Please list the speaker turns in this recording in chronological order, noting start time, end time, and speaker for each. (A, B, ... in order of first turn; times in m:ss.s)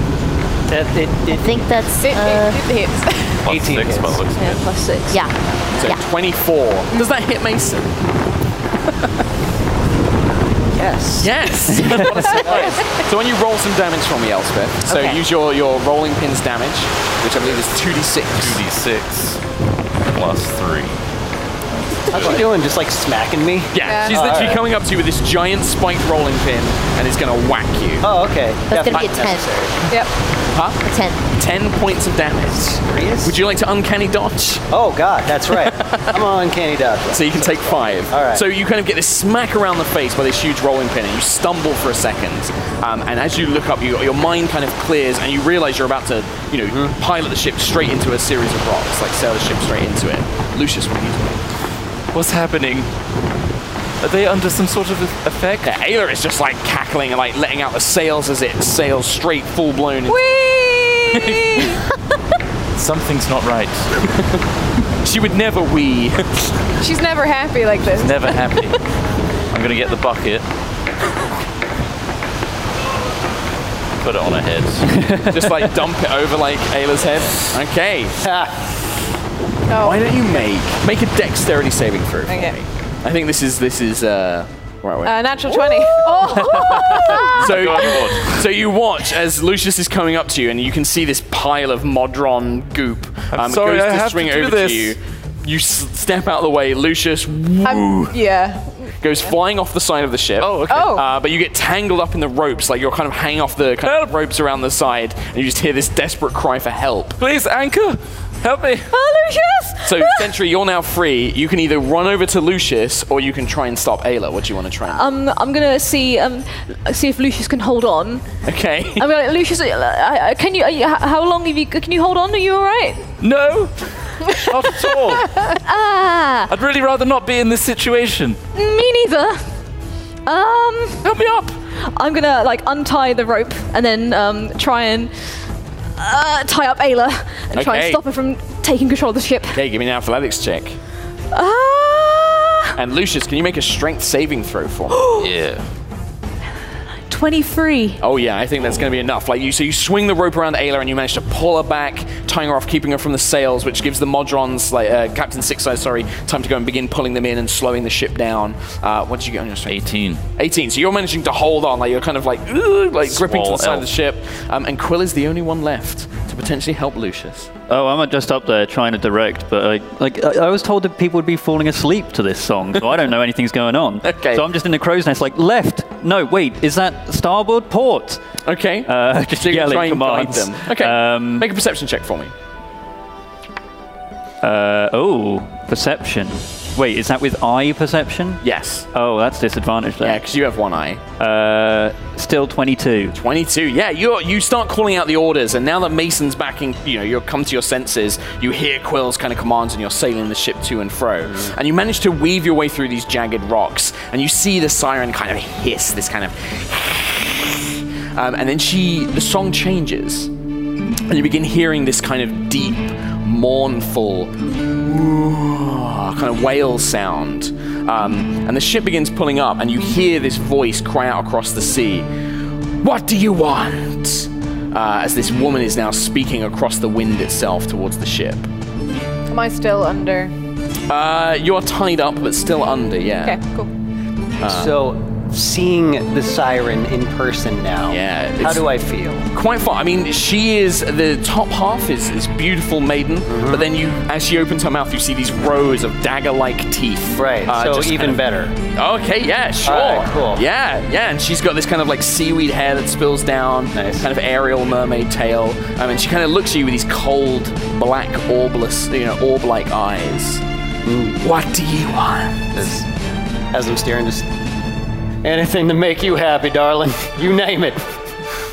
0:00.7-0:01.6 A
0:01.3-0:02.6 B
0:02.0-0:03.4 C
0:03.4-0:04.6 D
0:03.4-0:04.2 A
0:04.4-0:05.2 E
0:05.1-0:06.0 B
0:05.7-0:08.0 F
0:10.7-0:12.8 A
0:11.2-0:18.6 F
0:14.9-0:15.2 B
0:18.4-0:19.4 D
0:20.1-0:21.0 D
0:21.7-0:22.5 D
0:22.1-0:24.6 A
0:23.7-0:28.1 F
0:23.8-0:24.4 C
0:28.0-0:29.7 A
0:28.7-0:29.7 B
0:30.5-0:30.8 F
0:30.8-0:31.2 B
0:31.4-0:34.6 F
0:32.7-0:33.4 A
0:34.7-0:38.4 A
0:35.5-0:36.2 F
0:37.1-0:51.4 F
0:52.1-0:52.9 D
0:54.0-0:55.7 D
0:55.6-1:00.3 F
1:00.3-1:00.9 E
1:00.4-1:01.1 C
1:01.1-1:01.8 F
1:02.7-1:03.9 D
1:05.0-1:06.4 F
1:06.8-1:08.7 C
1:07.8-1:08.8 D
1:09.5-1:10.4 D
1:14.0-1:14.9 D
1:14.9-1:15.5 G
1:15.3-1:18.2 F
1:18.2-1:18.5 A
1:19.7-1:20.1 C
1:19.8-1:26.3 F
1:22.3-1:22.6 C
1:25.0-1:27.4 C
1:26.1-1:27.3 E
1:26.7-1:28.4 D
1:27.1-1:38.2 F
1:33.3-1:35.0 D
1:37.6-1:38.7 C
1:39.0-1:47.2 F
1:40.4-1:40.9 D
1:40.7-1:41.0 C
1:43.8-1:44.1 D
1:47.2-1:48.9 D
1:48.9-1:50.3 E
1:49.8-1:55.1 F
1:54.9-1:58.2 E
1:58.5-1:59.1 F
1:59.0-2:03.1 E
2:03.2-2:03.8 D
2:04.4-2:05.4 D
2:05.6-2:06.5 E
2:06.5-2:08.4 D
2:08.5-2:09.4 E
2:10.2-2:11.1 E
2:11.0-2:11.5 D
2:11.8-2:15.1 E
2:16.0-2:19.6 E
2:17.5-2:18.0 F
2:19.5-2:20.8 F
2:21.3-2:22.7 E
2:22.8-2:25.0 F
2:24.9-2:25.3 E
2:25.2-2:25.6 D
2:27.1-2:28.0 E
2:28.0-2:39.8 F
2:39.7-2:40.2 D
2:40.4-2:47.5 F
2:43.1-2:43.9 D
2:47.7-2:58.2 G
2:54.0-2:54.4 F
2:58.4-3:02.3 F
2:58.8-3:01.5 G
3:04.4-3:08.4 G
3:08.4-3:08.9 F
3:08.9-3:10.2 G
3:10.0-3:11.0 F
3:11.2-3:13.2 G
3:13.1-3:30.3 F
3:21.2-3:21.5 A
3:31.1-3:42.1 F
3:42.8-3:48.5 F
3:49.3-3:50.3 C
3:50.9-3:53.4 F
3:53.2-3:53.7 C
3:54.4-3:54.7 F
3:54.4-3:59.3 A
3:57.9-3:58.7 F
3:59.3-4:08.2 F
4:03.3-4:03.7 A
4:07.1-4:08.5 A
4:08.7-4:20.4 F
4:09.6-4:10.4 A
4:13.7-4:14.0 A
4:20.8-4:21.2 A
4:21.2-4:22.5 F
4:22.5-4:22.9 A
4:23.5-4:24.3 A
4:25.2-4:28.0 A